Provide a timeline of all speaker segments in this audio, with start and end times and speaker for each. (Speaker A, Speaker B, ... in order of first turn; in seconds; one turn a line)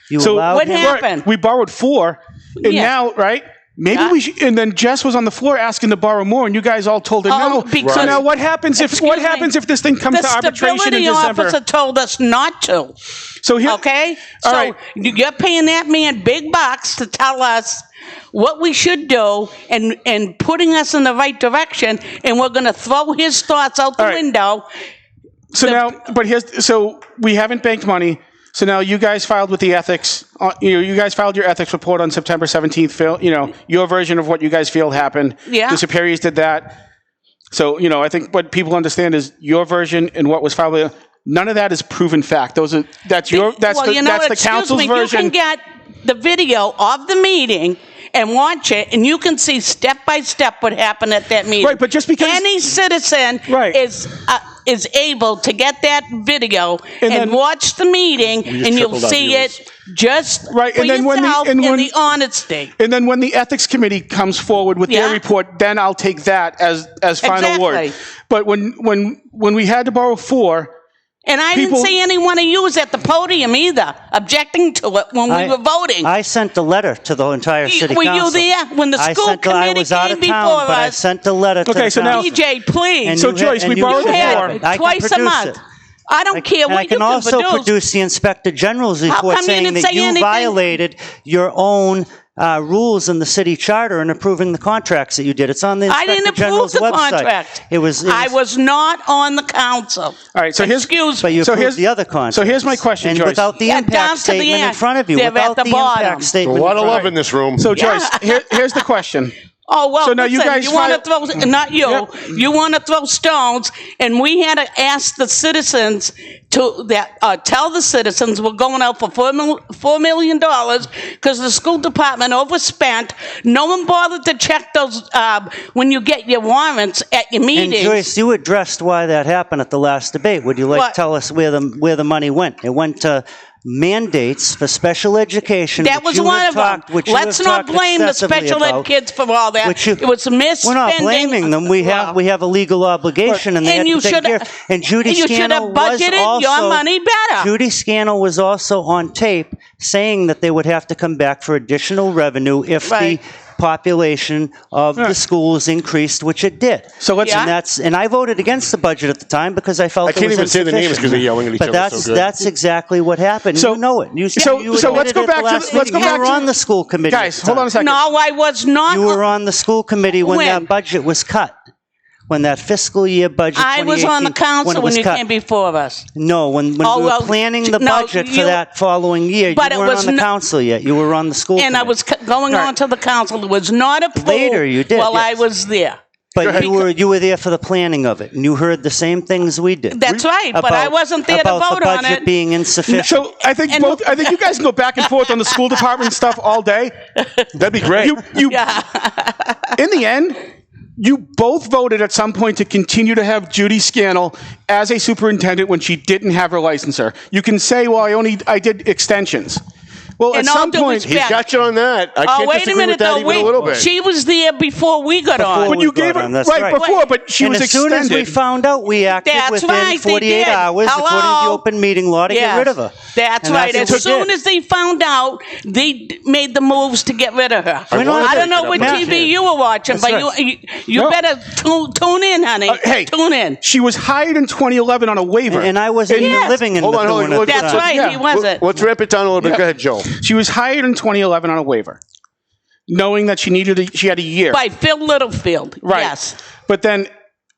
Speaker A: 0.1-1.0
Speaker B: 0.2-11.6
Speaker C: 0.5-1.2
Speaker C: 2.6-2.9
Speaker C: 7.3-9.5
Speaker D: 7.8-8.2
Speaker C: 10.1-12.9
Speaker B: 13.4-13.8
Speaker C: 13.6-24.7
Speaker B: 14.4-14.7
Speaker B: 24.0-24.2
Speaker B: 25.5-36.8
Speaker C: 25.6-26.0
Speaker C: 35.5-35.8
Speaker B: 37.5-45.3
Speaker C: 43.3-62.7
Speaker B: 51.6-52.4
Speaker B: 53.5-53.8
Speaker B: 57.0-57.4
Speaker D: 58.4-59.5
Speaker B: 60.5-61.9
Speaker B: 62.8-70.7
Speaker C: 64.9-65.2
Speaker C: 67.2-68.0
Speaker C: 71.2-76.1
Speaker B: 71.5-71.9
Speaker A: 75.3-82.4
Speaker C: 77.6-81.0
Speaker B: 81.6-82.3
Speaker C: 82.1-83.2
Speaker A: 83.0-85.6
Speaker B: 83.1-84.6
Speaker C: 83.9-85.6
Speaker C: 86.1-87.7
Speaker A: 86.3-98.3
Speaker C: 89.1-90.6
Speaker C: 95.9-101.3
Speaker B: 100.3-103.5
Speaker A: 101.2-107.1
Speaker C: 103.6-106.3
Speaker D: 106.4-107.7
Speaker B: 106.8-109.3
Speaker C: 107.7-108.8
Speaker C: 109.7-128.1
Speaker B: 110.0-111.0
Speaker A: 127.5-138.9
Speaker C: 130.7-131.0
Speaker C: 135.8-142.1
Speaker A: 139.6-140.0
Speaker A: 140.6-146.8
Speaker C: 143.3-147.5
Speaker A: 147.4-167.7
Speaker C: 152.8-153.2
Speaker B: 157.0-157.5
Speaker C: 157.2-157.5
Speaker D: 160.0-162.3
Speaker B: 163.5-163.8
Speaker B: 164.3-166.5
Speaker C: 164.4-166.5
Speaker B: 167.0-168.0
Speaker C: 167.7-169.2
Speaker A: 168.9-171.5
Speaker C: 170.2-170.7
Speaker A: 172.3-175.2
Speaker C: 173.5-176.1
Speaker A: 176.1-181.9
Speaker C: 176.8-178.6
Speaker C: 179.4-180.3
Speaker C: 181.6-186.8
Speaker A: 184.1-185.4
Speaker A: 186.3-193.3
Speaker C: 189.9-192.3
Speaker B: 192.9-196.9
Speaker C: 193.7-195.6
Speaker D: 197.6-198.2
Speaker B: 197.9-198.6
Speaker C: 198.4-199.7
Speaker B: 199.8-200.4
Speaker B: 201.0-209.6
Speaker B: 210.2-211.2
Speaker C: 210.3-211.4
Speaker D: 211.1-213.9
Speaker C: 212.2-215.8
Speaker A: 215.3-216.8
Speaker B: 215.7-218.4
Speaker C: 216.8-217.1
Speaker A: 217.4-224.3
Speaker C: 219.1-221.6
Speaker C: 222.3-233.6
Speaker B: 223.7-224.1
Speaker D: 227.9-229.3
Speaker A: 227.9-229.3
Speaker A: 229.9-230.3
Speaker B: 230.9-231.2
Speaker B: 232.7-236.5
Speaker A: 235.5-237.9
Speaker C: 236.2-236.6
Speaker D: 236.8-240.1
Speaker C: 237.4-238.6
Speaker B: 237.8-238.2
Speaker B: 239.4-242.0
Speaker B: 242.9-244.6
Speaker C: 244.5-246.4
Speaker B: 245.8-246.1
Speaker B: 246.7-247.1